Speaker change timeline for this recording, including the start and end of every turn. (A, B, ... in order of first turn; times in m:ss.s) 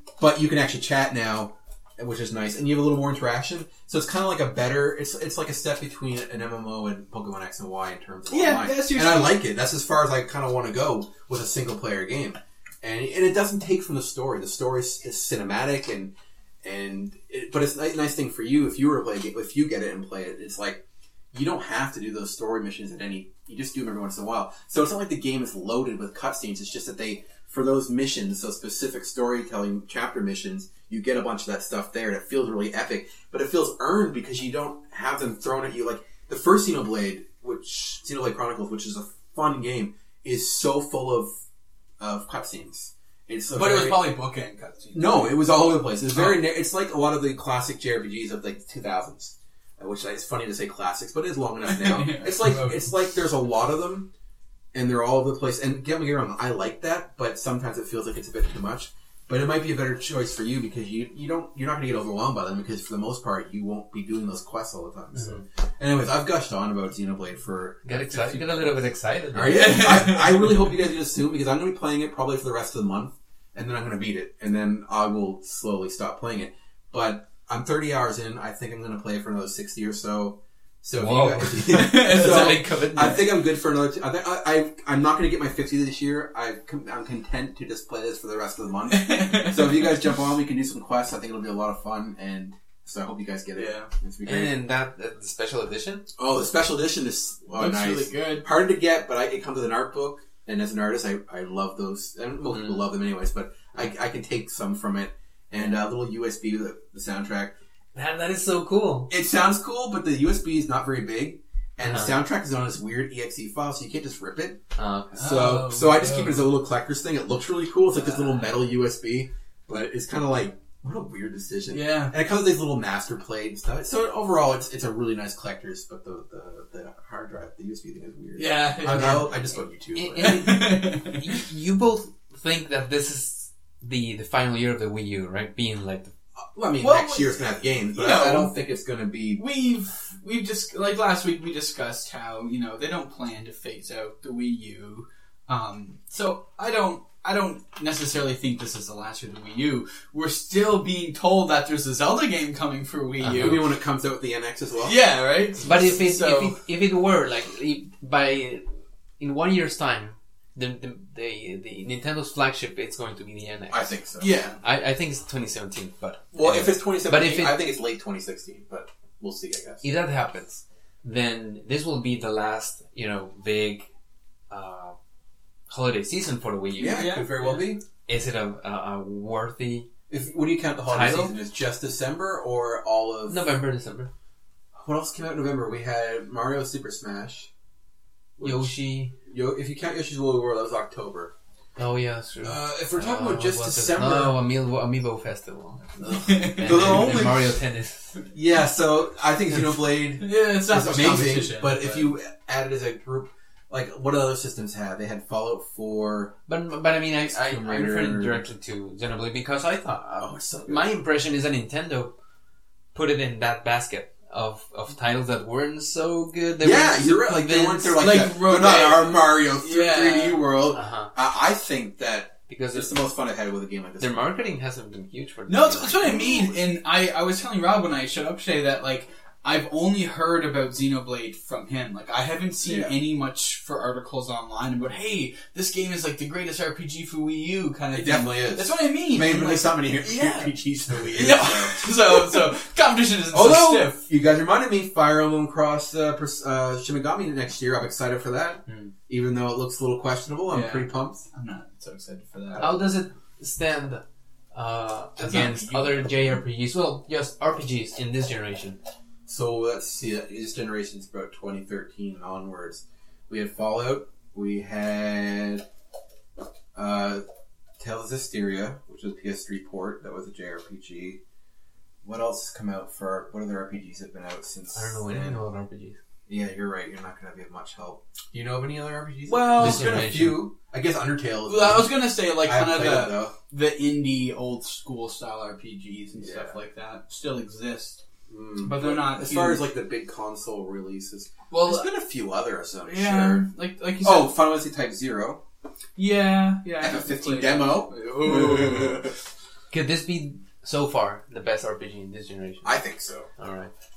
0:00.2-0:20.8 A
0:08.3-0:09.4 B
0:21.3-0:41.3 A
0:42.0-0:44.1 A
0:43.5-0:45.4 B
0:44.9-0:54.1 A
0:46.1-0:46.4 B
0:51.6-0:52.9 B
0:54.7-1:08.6 A
1:07.8-1:10.0 C
1:09.3-1:34.6 A
1:09.4-1:10.7 B
1:21.0-1:23.4 C
1:21.6-1:22.7 B
1:28.9-1:30.1 B
1:33.6-1:33.9 B
1:34.2-1:36.0 C
1:36.2-1:47.5 A
1:37.6-1:38.5 B
1:42.5-1:42.8 C
1:45.5-1:45.8 C
1:47.9-1:49.1 C
1:49.1-1:54.6 A
1:51.8-1:52.1 C
1:54.8-1:55.2 C
1:55.2-1:56.5 B
1:55.2-2:10.5 A
1:58.0-1:58.5 C
2:01.7-2:02.1 B
2:08.4-2:09.3 B
2:08.9-2:09.3 C
2:09.9-2:16.1 C
2:10.2-2:11.3 B
2:16.5-2:19.4 A
2:16.8-2:18.5 B
2:19.4-2:33.7 B
2:33.2-2:33.6 C
2:33.3-2:35.0 A
2:34.8-2:36.6 B
2:35.6-2:38.6 C
2:39.2-2:43.9 C
2:43.7-2:44.3 A
2:44.2-2:44.6 B
2:44.6-2:47.6 C
2:46.3-2:49.9 A
2:49.8-2:53.9 C
2:54.5-2:55.0 C
2:55.7-2:57.1 C
2:56.8-2:57.8 A
2:56.8-2:57.6 B
2:58.1-2:59.9 C
3:00.1-3:03.5 A
3:00.9-3:01.4 C
3:03.3-3:04.1 C
3:04.8-3:07.5 A
3:08.4-3:11.3 A
3:08.4-3:09.1 C
3:11.8-3:18.2 C
3:12.4-3:14.4 A
3:16.1-3:17.2 B
3:16.6-3:17.5 A
3:18.3-3:26.4 A
3:20.2-3:22.1 B
3:26.5-3:32.1 C
3:27.2-3:28.4 A
3:30.2-3:30.9 A
3:32.9-3:38.0 C
3:36.6-3:44.2 A
3:38.0-3:40.4 B
3:40.7-3:41.1 C
3:42.5-3:43.0 C
3:44.0-3:46.4 C
3:45.5-4:00.5 B
3:46.1-3:46.5 A
3:52.6-3:53.0 A
3:57.9-4:02.4 A
4:01.1-4:04.0 B
4:03.3-4:11.2 A
4:08.7-4:08.9 C
4:10.5-4:12.9 B
4:12.6-4:14.0 C
4:14.5-4:18.8 C
4:15.2-4:16.2 B
4:19.2-4:25.6 A
4:26.7-4:27.2 A
4:27.8-4:31.2 A
4:32.0-4:35.4 A
4:34.7-4:36.0 C
4:36.3-4:43.3 A
4:39.3-4:40.1 B
4:39.5-4:40.5 C
4:41.5-4:48.0 B
4:46.2-4:46.6 A
4:48.3-4:53.5 A
4:48.6-4:49.7 B
4:51.5-4:51.9 B
4:52.8-4:54.4 B
4:54.0-4:55.4 A
4:56.0-4:59.1 B
4:56.8-4:59.0 A
4:59.7-5:02.8 C
5:02.6-5:03.3 A
5:03.4-5:03.7 C